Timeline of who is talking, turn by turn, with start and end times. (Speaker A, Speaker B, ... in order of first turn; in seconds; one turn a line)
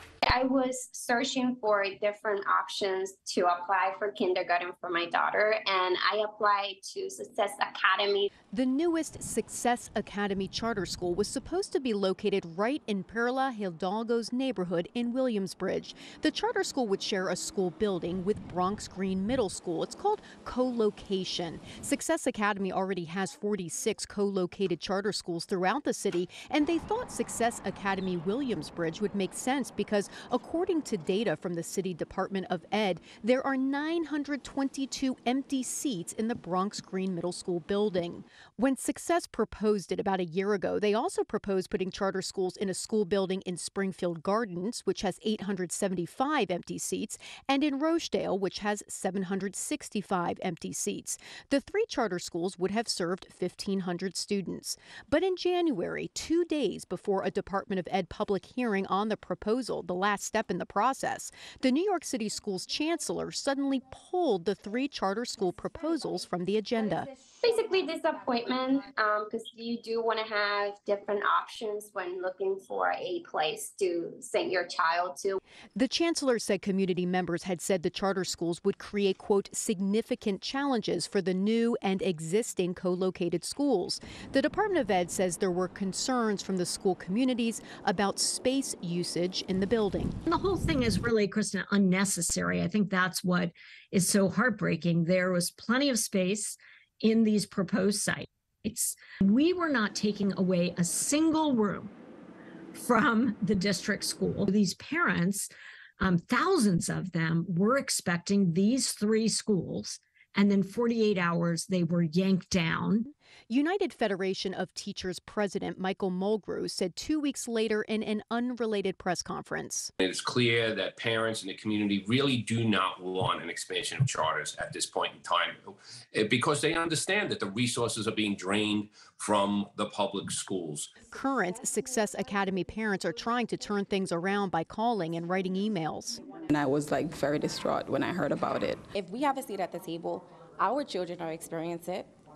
Speaker A: 0.2-8.3
Speaker B: 8.5-67.1
Speaker A: 67.4-75.4
Speaker B: 75.7-90.2
Speaker C: 90.3-101.9
Speaker C: 102.7-113.1
Speaker B: 113.5-119.9
Speaker D: 120.0-130.9
Speaker B: 131.1-136.2
Speaker E: 136.5-138.8
Speaker F: 138.9-142.1